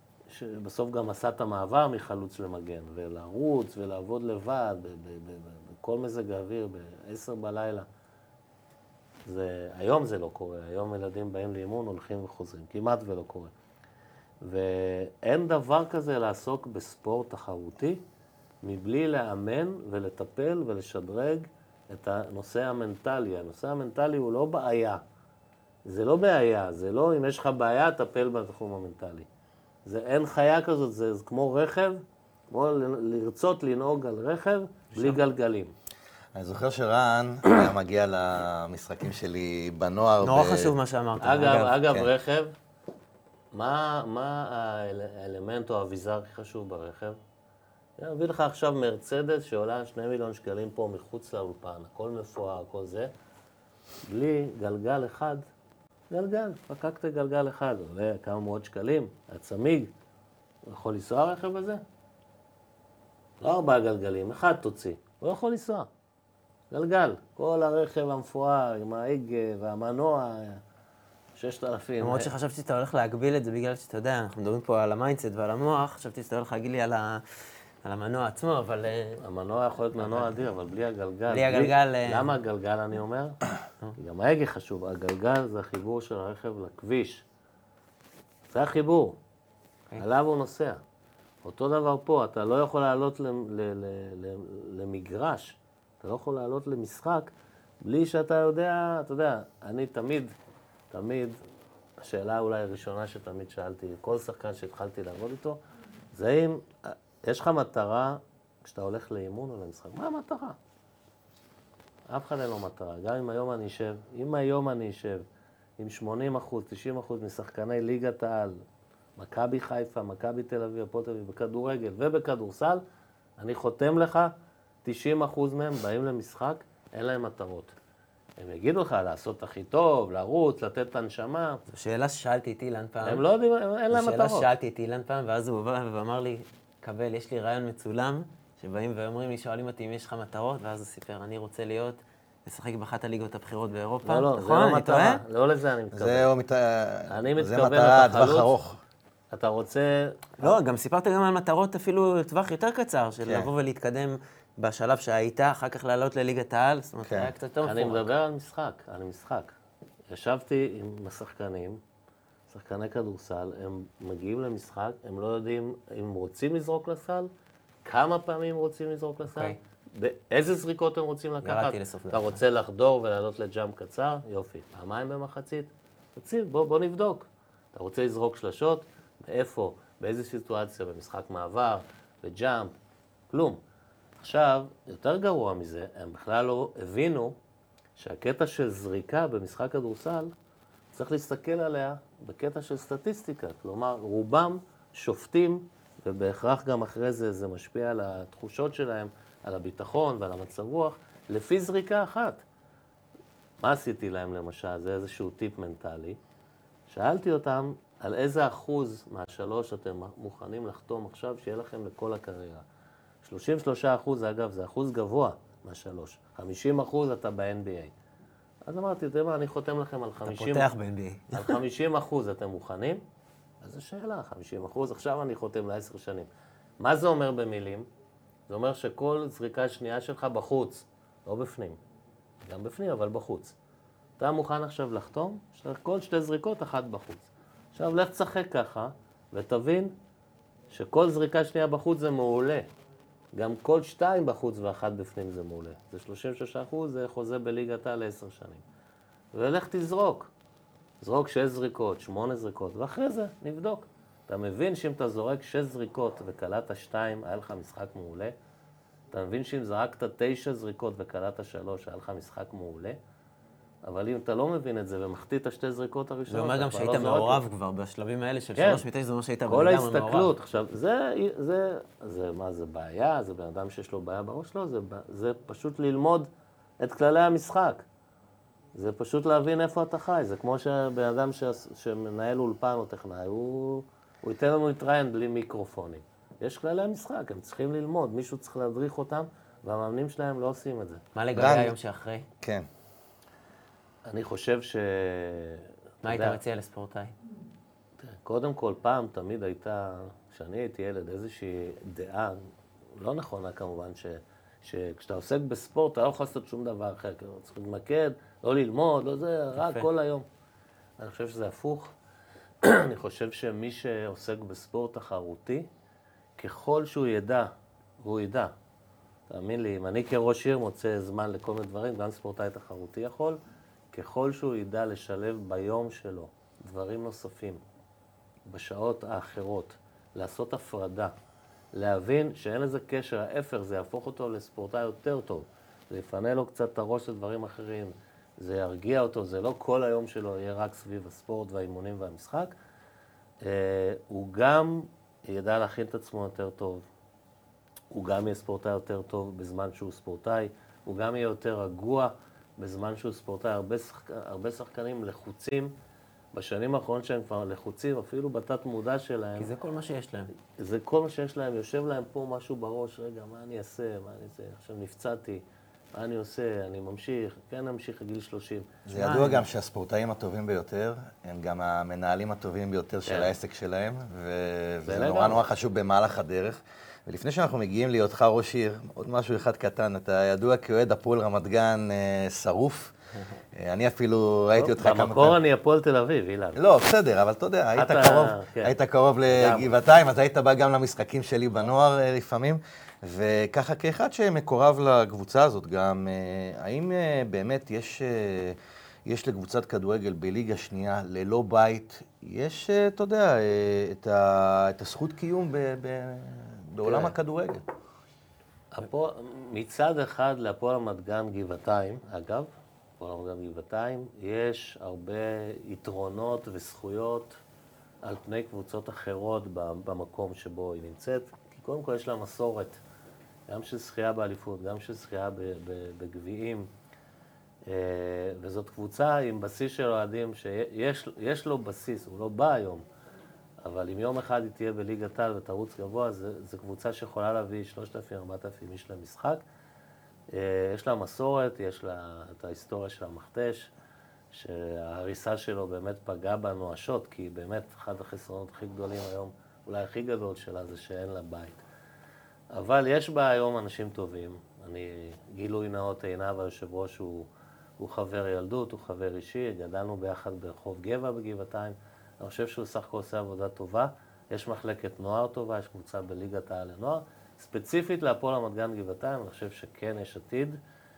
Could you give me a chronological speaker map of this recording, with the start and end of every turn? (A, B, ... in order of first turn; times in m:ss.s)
0:00.3-0:07.9 A
0:09.2-0:13.5 A
0:14.4-0:18.0 A
0:18.6-0:25.0 A
0:25.8-0:29.3 A
0:29.8-0:35.7 A
0:36.3-0:40.7 B
0:40.2-0:41.8 C
0:41.2-0:42.5 A
0:43.5-0:47.2 A
0:48.0-0:53.1 A
0:54.1-0:55.4 A
0:56.1-0:59.9 A
1:00.6-1:01.8 A
1:03.4-1:05.9 A
1:06.7-1:10.6 A
1:11.4-1:12.3 A
1:12.0-1:19.2 C
1:19.2-1:23.4 A
1:19.9-1:20.6 C
1:21.3-1:22.3 C
1:24.0-1:27.2 A
1:28.5-1:29.2 A
1:30.0-1:30.8 A
1:31.4-1:40.3 A
1:40.9-1:41.4 A
1:42.0-1:45.6 A
1:46.1-1:50.6 A
1:52.1-1:55.2 A
1:55.8-1:58.6 A
1:59.2-2:02.8 A
2:03.4-2:04.3 A
2:04.8-2:07.7 A
2:08.4-2:11.6 A
2:11.7-2:13.2 C
2:13.0-2:14.5 A
2:13.9-2:25.2 C
2:24.0-2:26.3 A
2:25.9-2:28.8 B
2:27.1-2:28.5 A
2:29.3-2:30.5 A
2:30.4-2:38.1 C
2:33.2-2:33.5 B
2:37.0-2:37.3 B
2:37.6-2:39.6 A
2:40.1-2:41.8 A
2:42.5-2:47.3 A
2:47.8-3:02.7 A
2:49.3-2:49.6 C
2:51.4-2:52.4 C
3:03.3-3:03.6 A
3:04.2-3:07.4 A
3:08.0-3:10.3 A
3:10.9-3:22.4 A
3:23.6-3:26.2 A
3:26.9-3:32.6 A
3:33.2-3:37.9 A
3:38.7-3:40.7 A
3:40.2-3:41.6 C
3:41.3-3:43.0 A
3:43.6-3:46.3 A
3:46.8-3:47.9 A
3:48.5-3:51.8 A
3:52.4-3:53.5 A
3:54.2-3:59.9 A
4:00.7-4:02.7 A
4:03.3-4:08.6 A
4:09.3-4:10.3 A
4:11.0-4:18.3 A
4:19.1-4:23.0 A
4:23.8-4:27.4 A
4:26.3-4:30.3 C
4:28.6-4:28.8 A
4:29.5-4:36.3 A
4:36.8-4:37.8 A
4:38.7-4:51.0 A
4:51.1-4:52.3 C
4:51.3-4:51.7 B
4:52.4-4:52.7 B
4:54.0-4:56.4 A
4:56.0-4:57.1 C
4:58.0-5:10.2 A
5:09.6-5:09.9 C
5:11.0-5:11.9 A
5:12.6-5:15.7 A
5:16.4-5:18.5 A
5:19.3-5:23.4 A
5:23.9-5:27.6 A
5:28.5-5:31.1 A
5:31.7-5:42.6 A
5:43.4-5:46.8 A
5:47.9-5:55.7 A
5:56.3-5:59.5 A
5:59.4-6:00.3 C
6:00.6-6:08.7 A
6:08.8-6:22.9 B
6:08.9-6:09.4 C
6:13.1-6:13.3 A
6:14.8-6:15.4 A
6:23.6-6:25.4 B
6:24.6-6:26.6 A
6:26.5-6:47.6 B
6:27.7-6:28.7 A
6:29.3-6:29.7 A
6:46.8-6:47.2 A
6:48.7-6:52.5 A
6:53.0-6:57.4 A
6:58.0-7:02.8 A
7:03.5-7:06.7 A
7:07.7-7:12.8 A
7:13.6-7:19.4 A
7:20.3-7:23.7 A
7:24.3-7:31.6 A
7:32.5-7:37.3 A
7:37.8-7:50.6 A